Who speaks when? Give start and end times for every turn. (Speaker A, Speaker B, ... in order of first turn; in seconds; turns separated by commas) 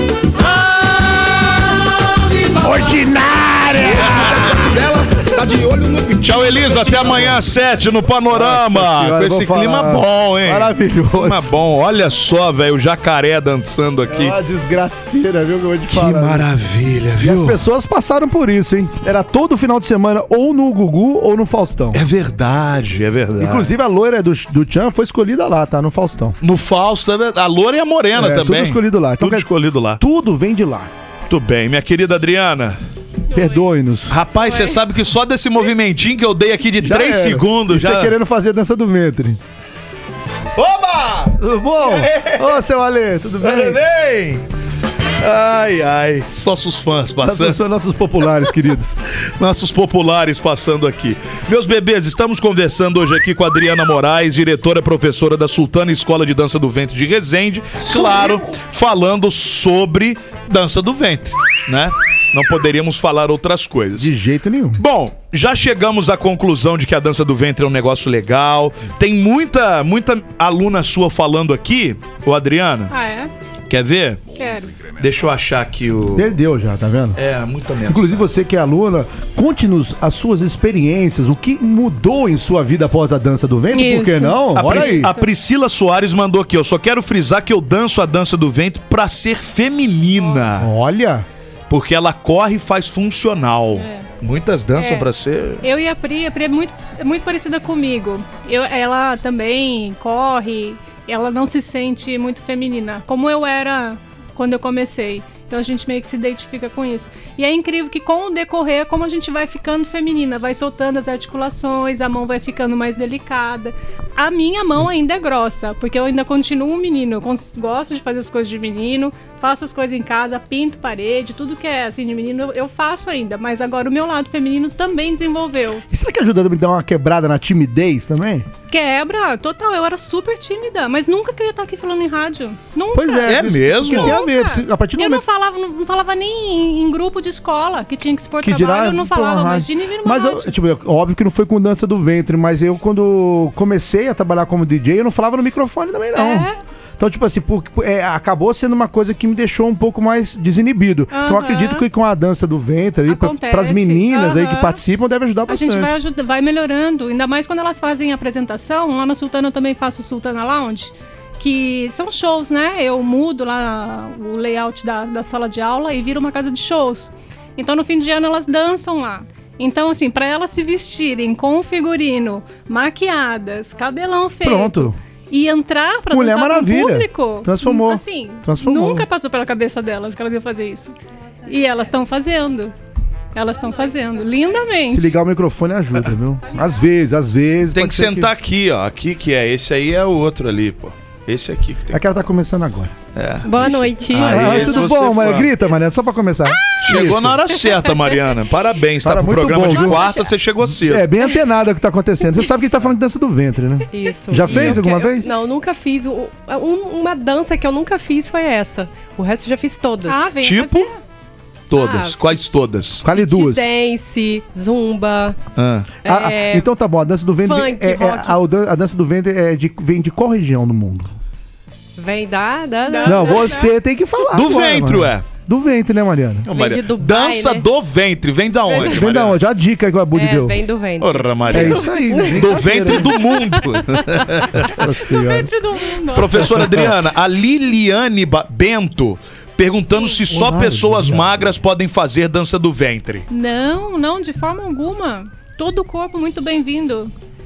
Speaker A: 0.4-2.9, Speaker B: 2.6-4.9, Speaker A: 3.8-7.4, Speaker C: 6.2-14.4, Speaker B: 8.3-11.5, Speaker B: 14.1-16.5, Speaker C: 15.9-17.6, Speaker B: 17.2-22.0, Speaker C: 21.9-23.7, Speaker B: 23.4-26.4, Speaker C: 26.4-30.0, Speaker B: 28.1-30.9, Speaker C: 31.3-32.8, Speaker B: 33.3-34.2, Speaker D: 33.3-33.6, Speaker C: 34.1-38.1, Speaker D: 34.4-34.8, Speaker B: 36.8-39.4, Speaker C: 40.5-42.6, Speaker B: 41.4-43.8, Speaker C: 43.4-44.5, Speaker C: 45.2-47.6, Speaker B: 47.2-49.0, Speaker C: 49.4-64.1, Speaker B: 57.8-58.4, Speaker B: 64.0-64.8, Speaker C: 64.8-72.9, Speaker D: 72.9-73.3, Speaker C: 73.7-74.2, Speaker D: 74.3-74.7, Speaker C: 75.0-76.3, Speaker B: 76.1-77.2, Speaker C: 77.2-78.2, Speaker B: 77.9-85.1, Speaker D: 83.7-85.3, Speaker C: 84.5-90.7, Speaker B: 90.6-91.2, Speaker C: 91.7-95.6, Speaker D: 93.7-94.1, Speaker D: 94.8-95.1, Speaker D: 95.6-125.8, Speaker B: 125.9-128.4, Speaker D: 128.7-140.6, Speaker B: 132.9-135.2, Speaker C: 133.2-134.2, Speaker B: 138.4-155.9, Speaker D: 146.1-146.6, Speaker D: 151.1-151.8, Speaker D: 153.1-154.8, Speaker D: 155.5-180.9, Speaker B: 174.4-175.0, Speaker B: 176.1-179.1, Speaker D: 181.4-182.7, Speaker D: 183.3-185.1, Speaker B: 184.9-188.3, Speaker C: 187.7-192.1, Speaker B: 191.9-192.9, Speaker C: 193.1-195.5, Speaker E: 193.4-194.9, Speaker B: 194.2-197.4, Speaker C: 196.7-201.1, Speaker B: 199.0-200.1, Speaker D: 199.8-200.3, Speaker B: 200.6-205.3, Speaker E: 203.9-210.3, Speaker C: 204.5-204.8, Speaker D: 210.0-211.0, Speaker C: 210.4-210.9, Speaker C: 211.7-213.0, Speaker E: 211.7-212.4, Speaker B: 213.0-213.7, Speaker E: 213.1-215.4, Speaker C: 215.6-215.9, Speaker E: 216.0-216.7, Speaker B: 216.0-221.2, Speaker E: 217.4-218.4, Speaker E: 221.9-223.5, Speaker D: 222.8-223.7, Speaker B: 223.0-226.5, Speaker C: 224.3-225.3, Speaker C: 226.5-229.4, Speaker E: 226.5-227.7, Speaker E: 228.7-229.0, Speaker B: 228.7-230.6, Speaker E: 230.1-234.0, Speaker C: 231.0-234.8, Speaker B: 231.5-233.2, Speaker B: 234.6-235.5, Speaker D: 235.0-236.5, Speaker C: 236.1-243.3, Speaker B: 236.5-236.9, Speaker D: 239.9-240.2, Speaker B: 240.3-241.5, Speaker D: 243.3-247.1